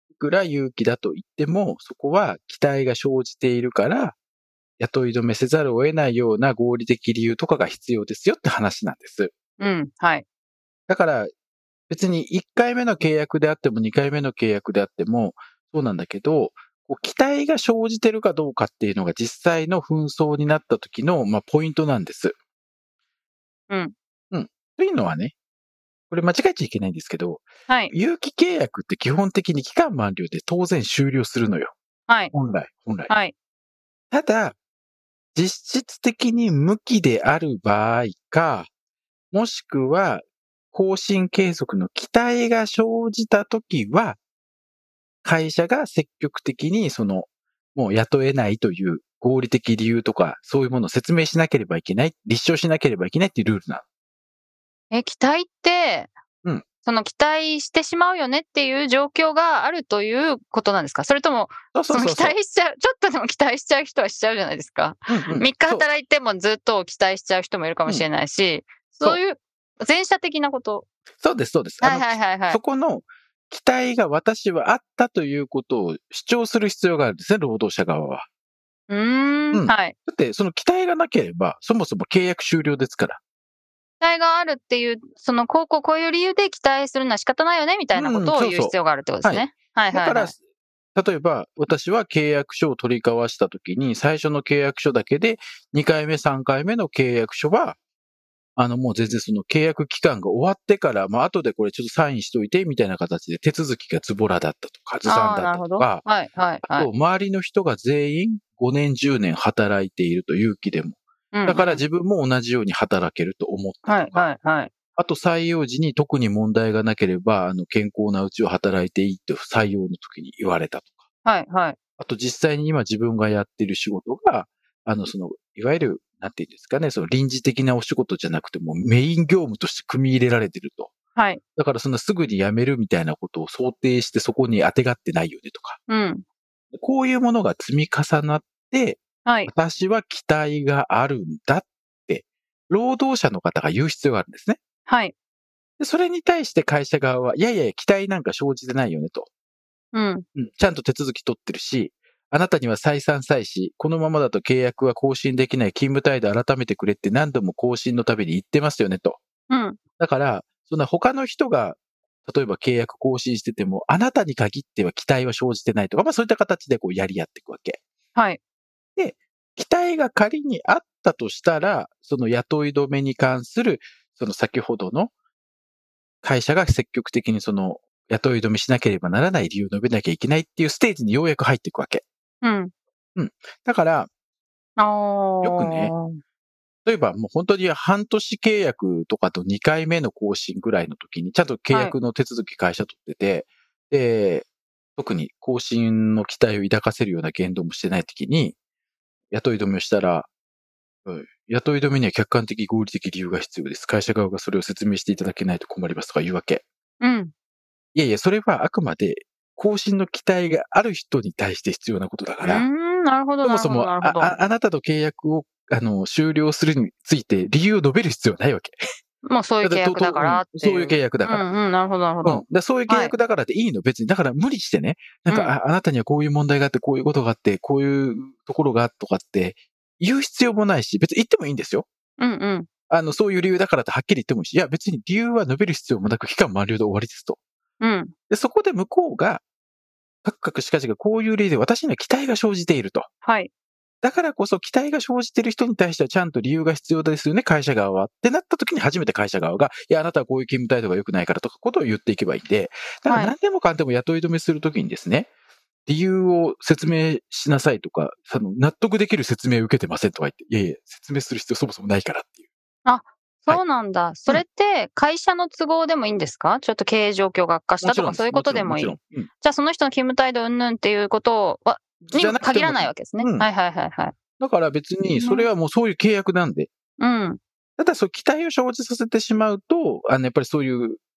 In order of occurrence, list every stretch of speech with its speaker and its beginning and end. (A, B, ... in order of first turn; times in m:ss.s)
0:00.2-0:04.2 A
0:04.8-0:09.3 A
0:09.6-0:10.2 B
0:10.9-0:11.3 A
0:11.9-0:22.4 A
0:24.3-0:25.4 A
0:26.1-0:31.7 A
0:32.3-0:33.1 A
0:34.1-0:34.6 A
0:35.4-0:38.7 A
0:39.3-0:44.2 A
0:45.2-0:53.8 A
0:54.9-0:56.1 B
0:56.8-1:10.8 B
1:01.7-1:02.4 A
1:05.1-1:05.9 A
1:11.2-1:18.3 A
1:11.8-1:12.6 B
1:18.9-1:19.9 B
1:19.5-1:23.2 A
1:24.0-1:30.3 B
1:28.0-1:30.4 A
1:31.0-1:37.8 A
1:38.6-1:46.0 A
1:45.1-1:46.9 B
1:46.7-1:54.3 A
1:51.3-1:51.8 B
1:53.9-1:54.7 B
1:55.0-2:01.0 A
2:01.3-2:01.8 B
2:02.0-2:10.9 A
2:11.6-2:15.8 A
2:15.9-2:16.2 B
2:16.7-2:24.6 A
2:19.3-2:19.5 B
2:24.9-2:25.1 B
2:25.8-2:29.3 A
2:30.4-2:39.2 A
2:40.0-2:47.8 A
2:49.0-2:55.1 A
2:56.2-3:02.0 A
3:02.4-3:02.7 B
3:03.2-3:04.1 A
3:04.8-3:06.2 B
3:05.4-3:05.9 A
3:06.9-3:18.6 A
3:11.7-3:12.0 B
3:19.3-3:20.3 A
3:21.0-3:26.6 A
3:27.0-3:27.3 B
3:27.9-3:32.6 A
3:32.4-3:34.4 B
3:33.4-3:38.8 A
3:39.2-3:43.1 B
3:39.6-3:41.5 A
3:42.2-3:51.9 A
3:45.3-3:45.5 B
3:52.2-3:52.7 B
3:52.9-3:57.4 A
3:57.8-3:58.1 B
3:58.3-3:59.4 A
4:00.2-4:03.1 A
4:03.2-4:03.5 B
4:04.0-4:15.3 A
4:13.1-4:13.3 B
4:15.9-4:22.4 A
4:22.9-4:34.1 B
4:27.8-4:29.3 A
4:32.0-4:33.5 A
4:34.4-4:36.7 A
4:35.2-4:35.5 B
4:37.0-4:37.4 B
4:37.8-4:41.0 A